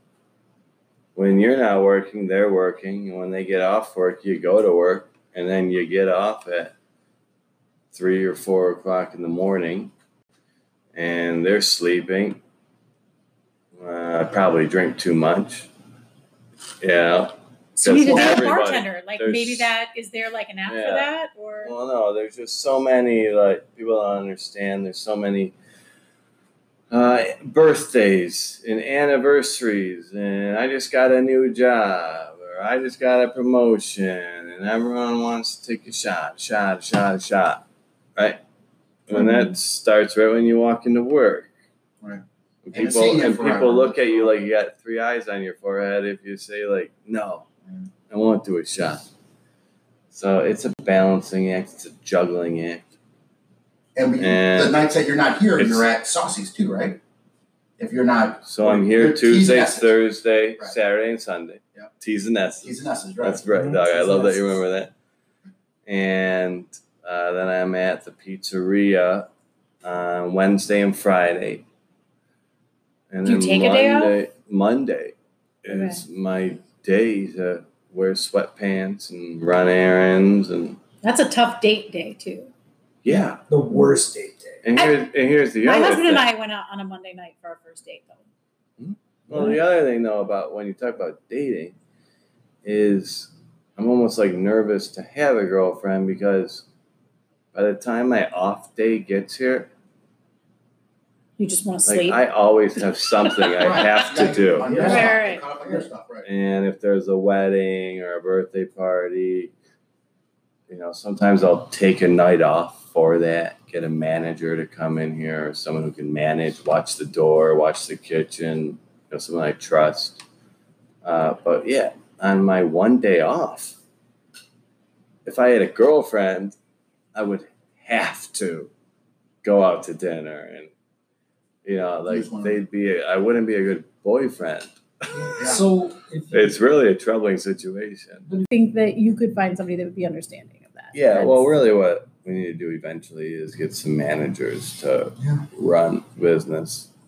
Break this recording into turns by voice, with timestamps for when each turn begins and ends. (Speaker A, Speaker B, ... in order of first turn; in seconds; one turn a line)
Speaker A: 1.1-6.7
Speaker A: 7.9-9.9
Speaker A: 10.9-12.4
Speaker A: 13.8-15.7
Speaker A: 16.8-19.7
Speaker B: 17.8-21.7
Speaker C: 18.1-18.3
Speaker A: 20.7-21.1
Speaker A: 21.6-25.5
Speaker A: 26.9-38.4
Speaker A: 39.1-41.5
Speaker C: 42.0-44.3
Speaker A: 42.6-47.5
Speaker A: 48.1-49.1
Speaker A: 50.1-52.8
Speaker C: 54.0-57.0
Speaker A: 54.2-54.8
Speaker A: 55.6-55.9
Speaker C: 57.8-59.9
Speaker A: 58.5-64.9
Speaker C: 62.6-63.5
Speaker D: 63.5-64.5
Speaker A: 65.9-69.3
Speaker A: 69.8-71.7
Speaker A: 73.1-80.8
Speaker B: 73.2-74.2
Speaker B: 75.7-76.0
Speaker B: 81.0-82.5
Speaker A: 83.0-83.4
Speaker D: 83.5-84.6
Speaker A: 84.6-86.3
Speaker B: 84.8-85.1
Speaker B: 85.6-88.2
Speaker A: 88.8-91.8
Speaker A: 92.6-96.7
Speaker A: 97.5-99.7
Speaker B: 101.4-102.2
Speaker A: 101.8-105.1
Speaker B: 103.4-103.9
Speaker C: 103.6-106.3
Speaker D: 104.6-105.0
Speaker B: 104.8-105.5
Speaker A: 106.2-109.5
Speaker A: 110.7-120.2
Speaker A: 121.0-123.8
Speaker A: 125.2-126.6
Speaker A: 127.2-128.7
Speaker A: 129.4-130.7
Speaker A: 131.7-135.6
Speaker C: 132.1-132.6
Speaker D: 135.1-136.6
Speaker C: 135.4-135.6
Speaker A: 136.3-138.2
Speaker B: 138.5-141.5
Speaker A: 140.9-146.9
Speaker C: 145.2-145.4